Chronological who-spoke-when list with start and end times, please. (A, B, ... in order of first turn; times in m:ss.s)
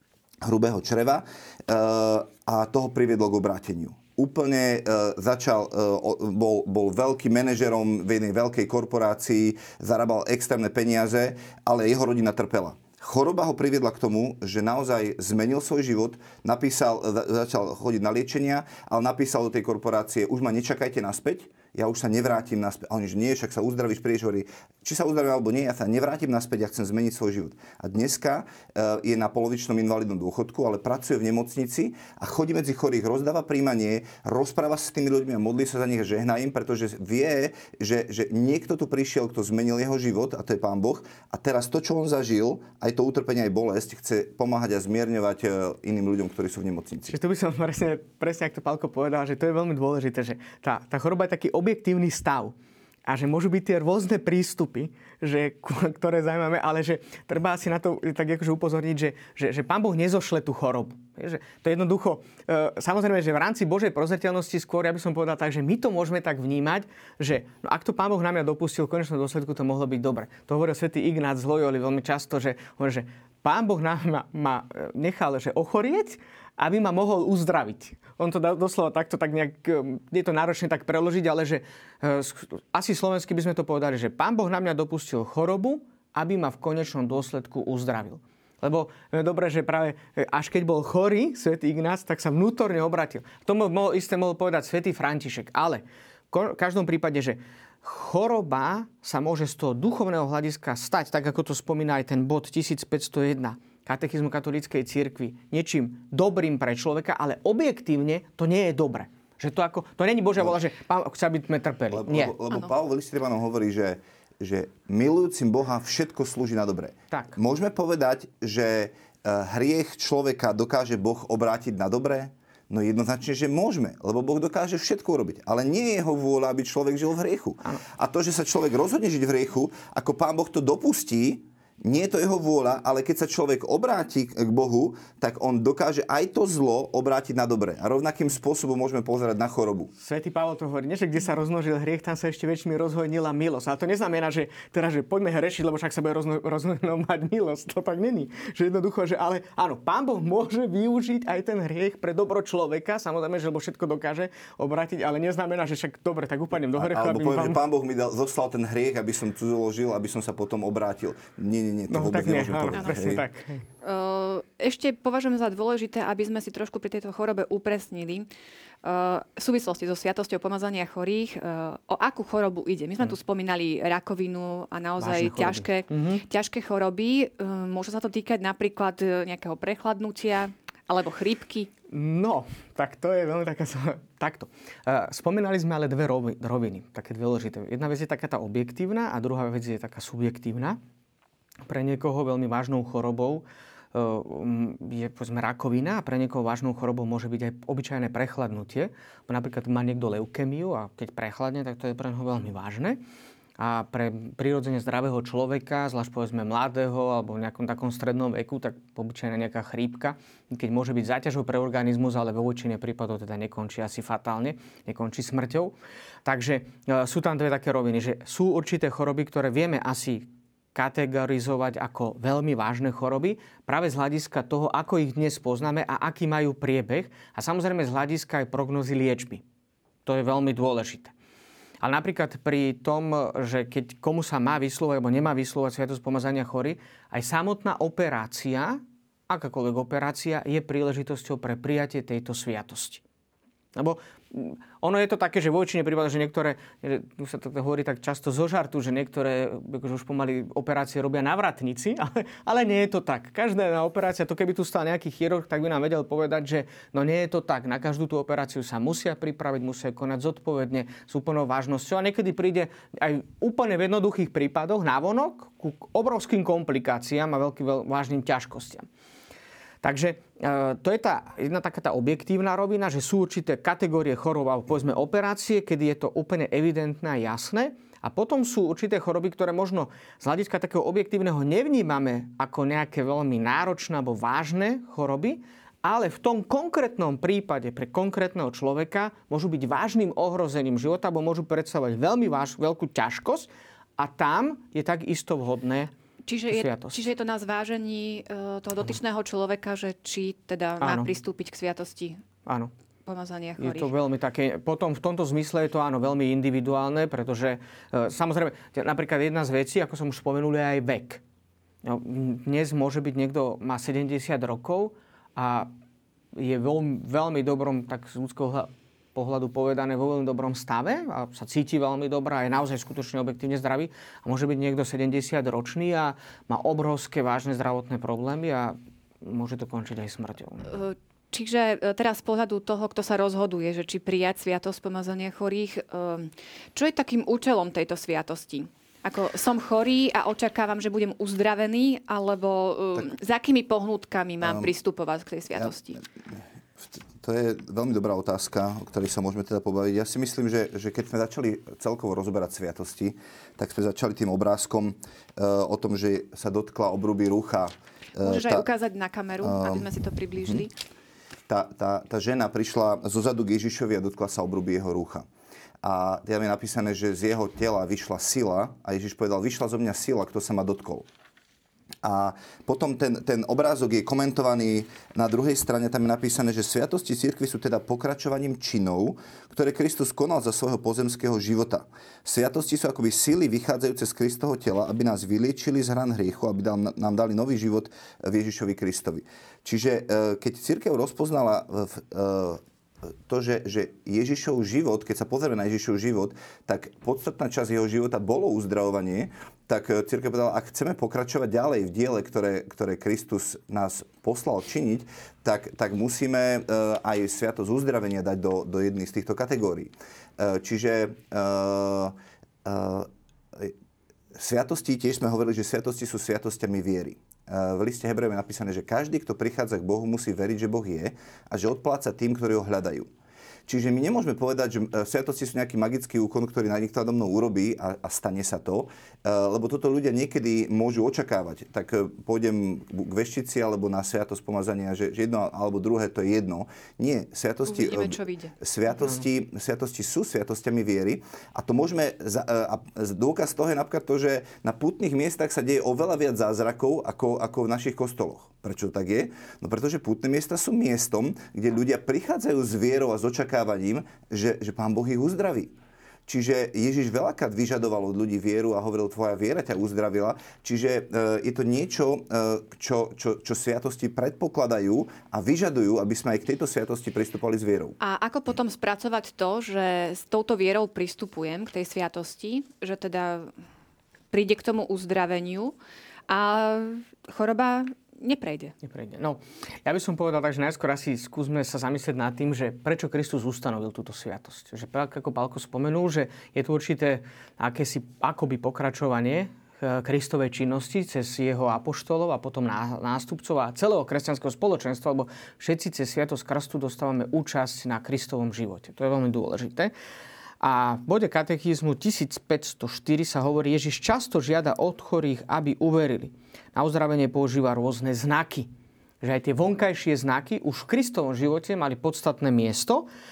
0:00.4-0:47.2 A
0:47.1-0:52.6 B
0:53.1-1:52.4 B
1:51.9-2:19.9 A
1:57.1-1:57.4 B
2:20.0-2:37.6 B
2:36.8-2:43.2 A
2:41.9-2:43.6 B
2:43.8-2:48.3 C
2:48.8-3:01.7 C
2:55.0-2:56.2 B
3:01.9-3:10.8 B
3:11.7-3:23.0 B
3:23.6-3:35.7 B
3:36.2-3:49.4 B
3:50.1-3:51.1 B
3:51.8-4:03.0 B
4:03.8-4:28.9 B
4:29.8-4:55.9 B
4:56.3-5:02.2 C
4:56.5-4:57.1 B
5:00.8-5:01.1 B
5:02.5-5:02.7 B
5:03.1-5:03.9 C
5:03.6-5:11.2 B
5:11.8-5:15.7 B
5:16.4-5:30.7 B
5:30.7-5:46.0 C
5:44.4-5:44.7 A
5:46.8-5:58.7 A
5:58.2-6:00.7 C
5:59.4-5:59.8 A
6:00.4-6:00.6 A
6:01.5-6:05.3 A
6:05.8-6:11.1 A
6:12.0-6:32.6 A
6:33.3-6:53.8 A
6:54.4-7:03.1 A
7:03.7-7:35.7 A
7:17.7-7:18.6 C
7:36.3-7:48.0 A
7:48.0-7:53.5 C
7:54.3-7:55.8 C
7:56.3-7:58.7 C
7:58.8-8:19.9 B
8:20.6-8:28.7 B
8:29.2-8:33.1 B